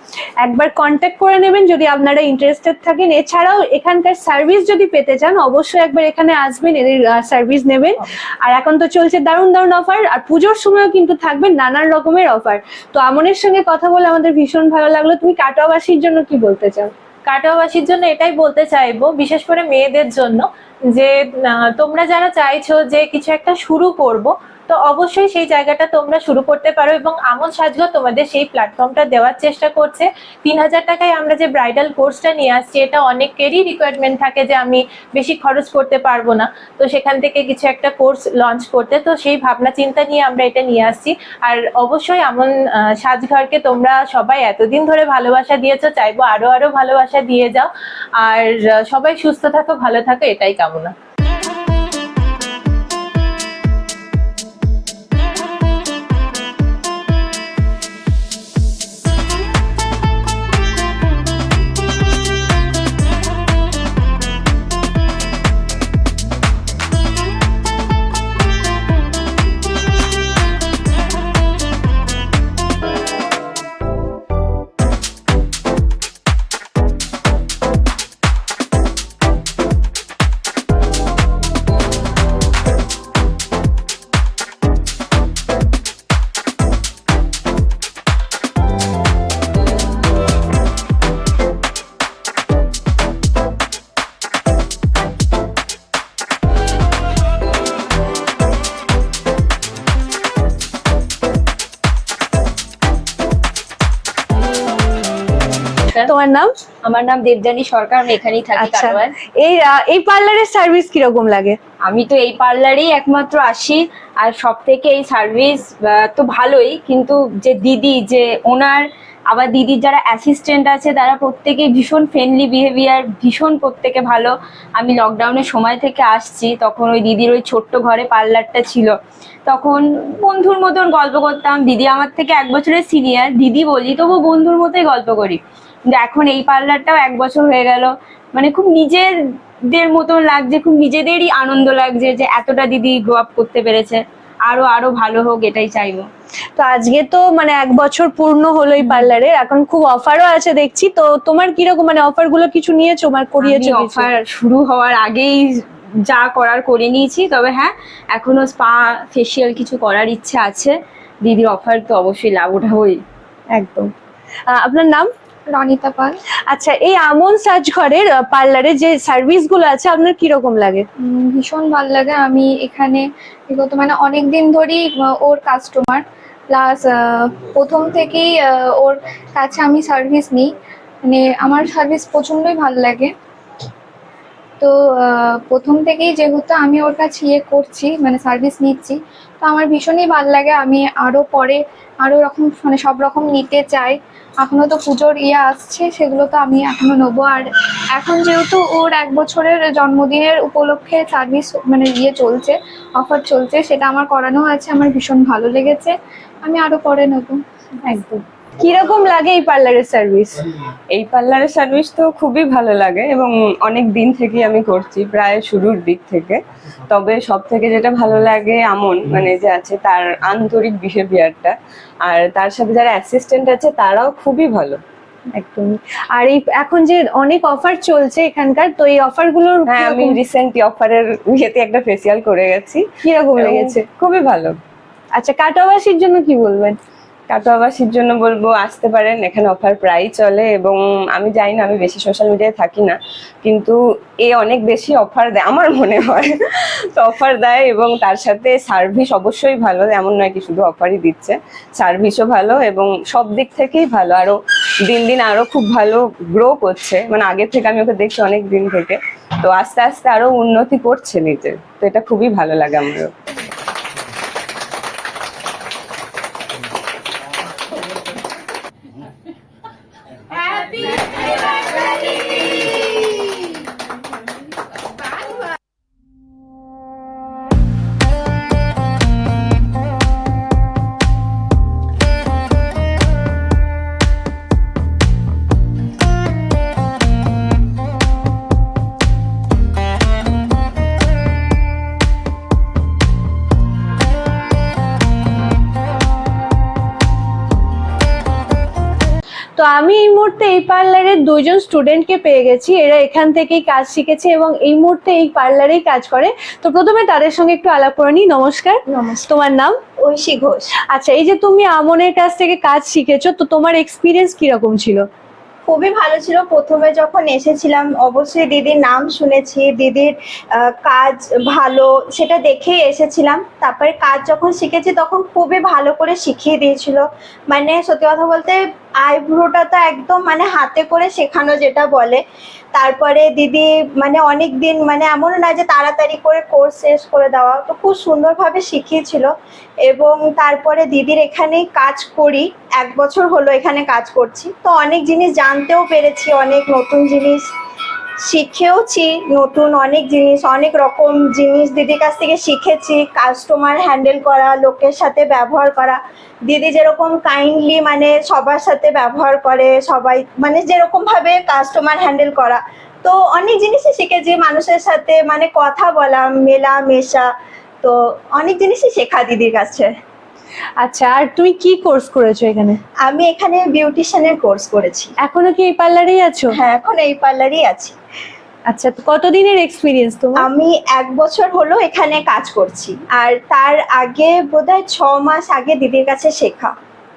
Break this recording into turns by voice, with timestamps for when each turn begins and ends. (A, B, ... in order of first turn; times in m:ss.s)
0:00.4-0:16.9 A
0:17.2-0:50.9 B
1:46.0-1:46.5 A
1:46.8-1:49.1 C
1:48.5-1:51.6 A
1:51.8-2:26.0 C
2:26.6-2:34.1 A
2:28.8-2:29.1 C
2:33.4-2:43.0 C
2:43.5-2:43.9 A
2:44.5-2:45.1 A
2:45.5-2:46.2 D
2:46.5-2:50.8 A
2:51.0-3:03.1 D
3:04.6-3:27.4 D
3:27.8-3:30.4 A
3:30.9-3:41.5 E
3:42.0-3:44.8 E
3:45.3-3:50.2 A
3:49.6-3:52.8 E
3:53.0-3:53.8 A
3:53.4-3:54.6 E
3:55.1-3:56.8 A
3:57.3-4:06.3 E
4:07.0-4:14.4 E
4:14.9-4:23.1 E
4:59.6-5:09.8 A
5:08.9-5:09.3 F
5:10.0-5:10.7 F
5:10.9-5:15.0 A
5:15.7-5:32.2 F
5:32.7-5:39.3 F
5:39.8-5:47.5 F
5:48.2-6:07.3 F
6:07.8-6:09.9 F
6:10.8-6:12.8 A
6:13.0-6:15.1 F
6:15.2-6:16.5 A
6:16.5-6:17.9 F
6:18.7-6:20.5 A
6:20.4-6:26.7 F